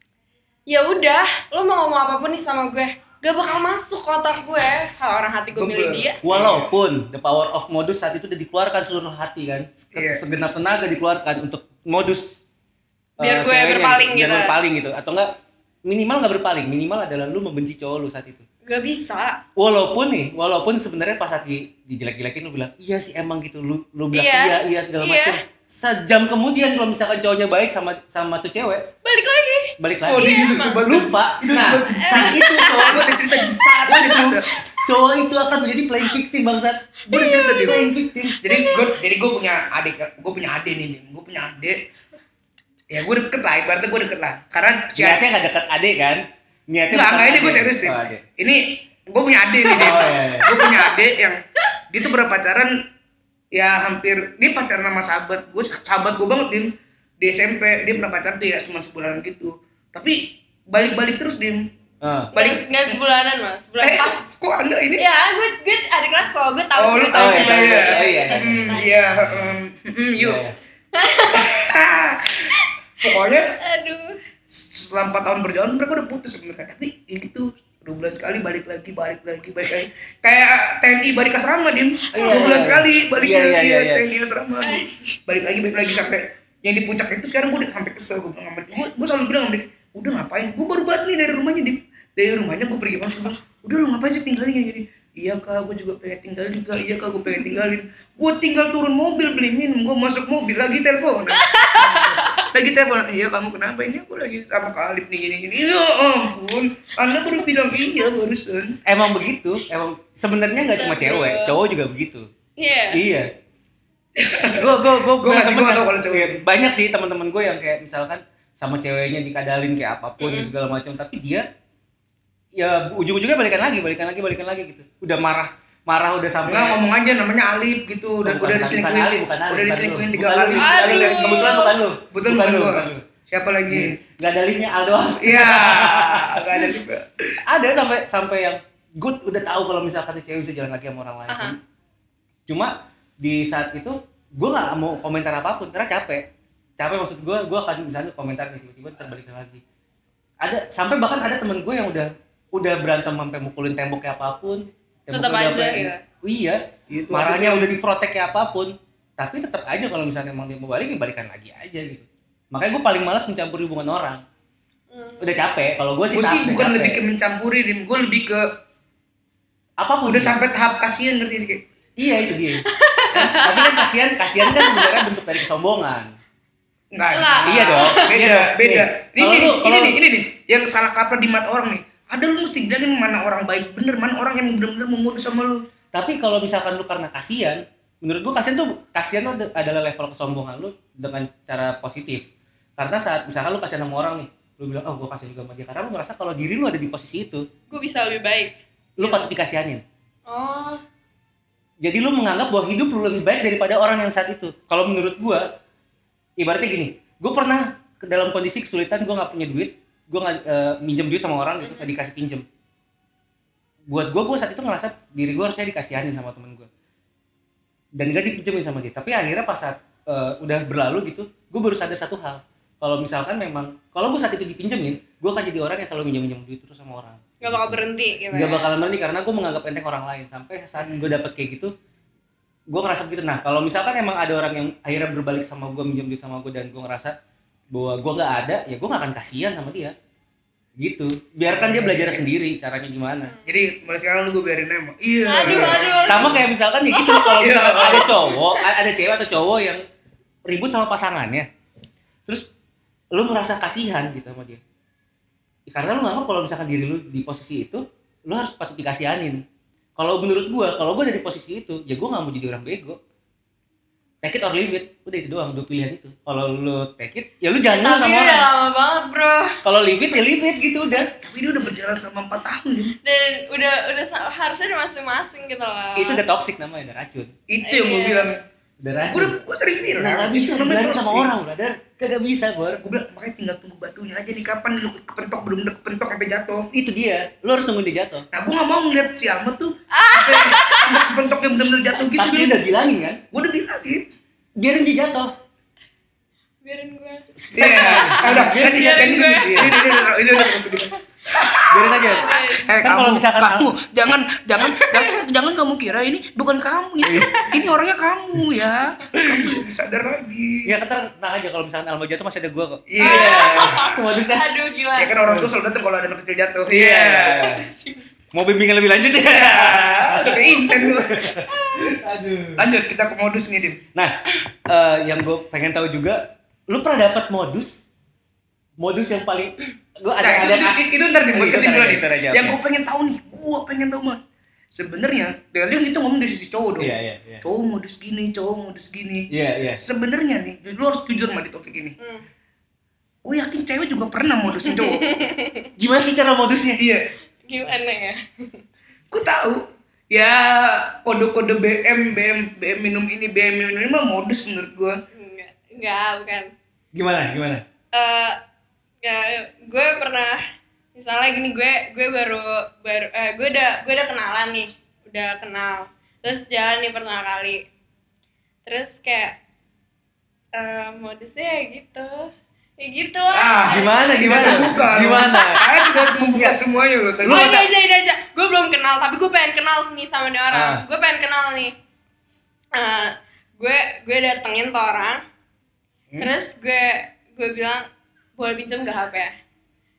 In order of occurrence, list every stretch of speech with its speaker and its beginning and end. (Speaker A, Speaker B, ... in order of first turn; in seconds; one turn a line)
Speaker A: 0.7-6.2
Speaker B: 5.5-6.7
Speaker C: 6.2-12.4
Speaker B: 9.9-10.2
Speaker A: 13.2-14.5
Speaker C: 13.2-15.3
Speaker C: 15.8-18.4
Speaker A: 18.7-19.4
Speaker C: 19.6-28.9
Speaker A: 24.1-25.4
Speaker A: 29.0-30.8
Speaker C: 29.8-36.9
Speaker B: 30.1-34.5
Speaker A: 32.0-34.8
Speaker A: 37.1-38.9
Speaker B: 37.1-37.9
Speaker C: 37.6-38.4
Speaker B: 38.4-41.8
Speaker B: 42.9-45.2
Speaker C: 45.0-48.2
Speaker B: 46.9-52.8
Speaker A: 49.6-51.0
Speaker C: 49.8-50.6
Speaker B: 53.5-61.7
Speaker C: 62.0-62.3
Speaker A: 62.3-64.3
Speaker B: 62.3-63.0
Speaker B: 63.8-65.0
Speaker A: 65.0-69.1
Speaker B: 66.8-70.4
Speaker C: 67.1-69.6
Speaker C: 70.2-70.6
Speaker A: 70.9-71.6
Speaker B: 71.3-73.6
Speaker A: 72.5-73.1
Speaker A: 73.6-74.2
Speaker B: 74.5-108.8
Speaker A: 82.1-82.6
Speaker C: 82.1-84.0
Speaker A: 84.6-85.2
Speaker A: 101.3-102.5
Speaker C: 108.9-112.3
Speaker A: 110.8-111.6
Speaker A: 112.6-113.0
Speaker C: 112.9-113.3
Speaker B: 114.2-116.4
Speaker C: 114.4-121.5
Speaker A: 120.2-120.5
Speaker C: 122.6-126.8
Speaker B: 126.5-131.6
Speaker C: 128.2-133.0
Speaker A: 130.6-131.8
Speaker B: 132.1-134.0
Speaker C: 133.7-136.8
Speaker B: 135.2-137.4
Speaker C: 137.4-141.6
Speaker A: 141.3-141.6
Speaker C: 142.5-146.3
Speaker C: 146.8-149.6
Speaker C: 150.4-164.2
Speaker A: 155.1-156.0
Speaker B: 156.9-157.8
Speaker A: 164.9-165.4
Speaker C: 165.2-167.0
Speaker B: 166.1-168.5
Speaker C: 169.8-170.4
Speaker B: 170.1-171.6
Speaker C: 172.0-172.6
Speaker A: 172.7-175.1
Speaker C: 173.4-176.1
Speaker B: 176.9-185.6
Speaker A: 177.1-178.1
Speaker C: 177.5-180.0
Speaker C: 185.9-197.5
Speaker A: 197.7-199.3
Speaker C: 199.0-199.8
Speaker A: 200.3-200.8
Speaker C: 201.8-205.5
Speaker C: 206.4-212.4
Speaker A: 211.6-211.9
Speaker C: 213.9-216.7
Speaker C: 218.0-227.8
Speaker A: 227.4-228.7
Speaker C: 228.3-231.7
Speaker B: 230.8-231.1
Speaker C: 232.7-237.1
Speaker C: 237.7-239.9
Speaker C: 240.8-243.3
Speaker B: 241.5-242.3
Speaker B: 243.4-246.4
Speaker A: 245.3-246.3
Speaker C: 245.4-249.8
Speaker A: 246.9-248.7
Speaker B: 247.4-248.1
Speaker C: 250.5-251.5
Speaker C: 253.1-254.6
Speaker C: 255.7-259.4
Speaker C: 260.0-263.0
Speaker C: 264.2-268.5
Speaker A: 267.7-269.6
Speaker C: 269.6-271.1
Speaker B: 271.2-272.9
Speaker A: 273.0-276.2
Speaker C: 276.0-277.3
Speaker B: 277.5-278.4
Speaker A: 277.6-278.3
Speaker C: 278.8-279.4
Speaker B: 279.1-281.3
Speaker C: 280.0-282.8
Speaker B: 282.8-286.7
Speaker C: 286.7-288.3
Speaker B: 288.3-292.6
Speaker A: 289.9-291.1
Speaker C: 292.1-293.2
Speaker B: 293.3-294.1
Speaker C: 294.6-295.3
Speaker A: 296.6-301.0
Speaker C: 297.4-299.8
Speaker B: 297.6-310.7
Speaker C: 301.7-302.3
Speaker A: 301.9-302.8
Speaker C: 302.8-303.7
Speaker A: 304.6-305.2
Speaker C: 307.0-307.7
Speaker A: 307.2-307.5
Speaker C: 309.1-309.6
Speaker C: 310.7-314.5
Speaker B: 312.9-313.9
Speaker A: 313.0-315.2
Speaker B: 315.0-317.6
Speaker C: 315.2-315.5
Speaker C: 316.7-317.7
Speaker A: 317.7-318.0
Speaker C: 318.3-322.6
Speaker B: 319.2-321.3
Speaker A: 321.4-321.9
Speaker B: 322.6-323.8
Speaker C: 324.7-327.9
Speaker C: 328.8-332.6
Speaker B: 330.2-334.2
Speaker B: 334.7-342.0
Speaker C: 336.8-337.4
Speaker C: 339.3-339.8
Speaker B: 343.2-345.1
Speaker A: 344.6-345.7
Speaker C: 345.8-346.8
Speaker B: 346.8-347.1
Speaker A: 347.5-348.6
Speaker B: 349.1-355.0
Speaker A: 355.1-356.5
Speaker C: 356.9-357.6
Speaker A: 357.9-358.4
Speaker A: 359.0-360.4
Speaker A: 360.9-367.6
Speaker A: 368.7-369.4
Speaker A: 370.6-376.1
Speaker B: 373.3-377.6
Speaker C: 373.6-375.6
Speaker C: 376.3-376.6
Speaker C: 377.2-377.7
Speaker A: 377.3-381.7
Speaker C: 380.5-380.8
Speaker A: 382.8-385.2
Speaker A: 386.2-389.3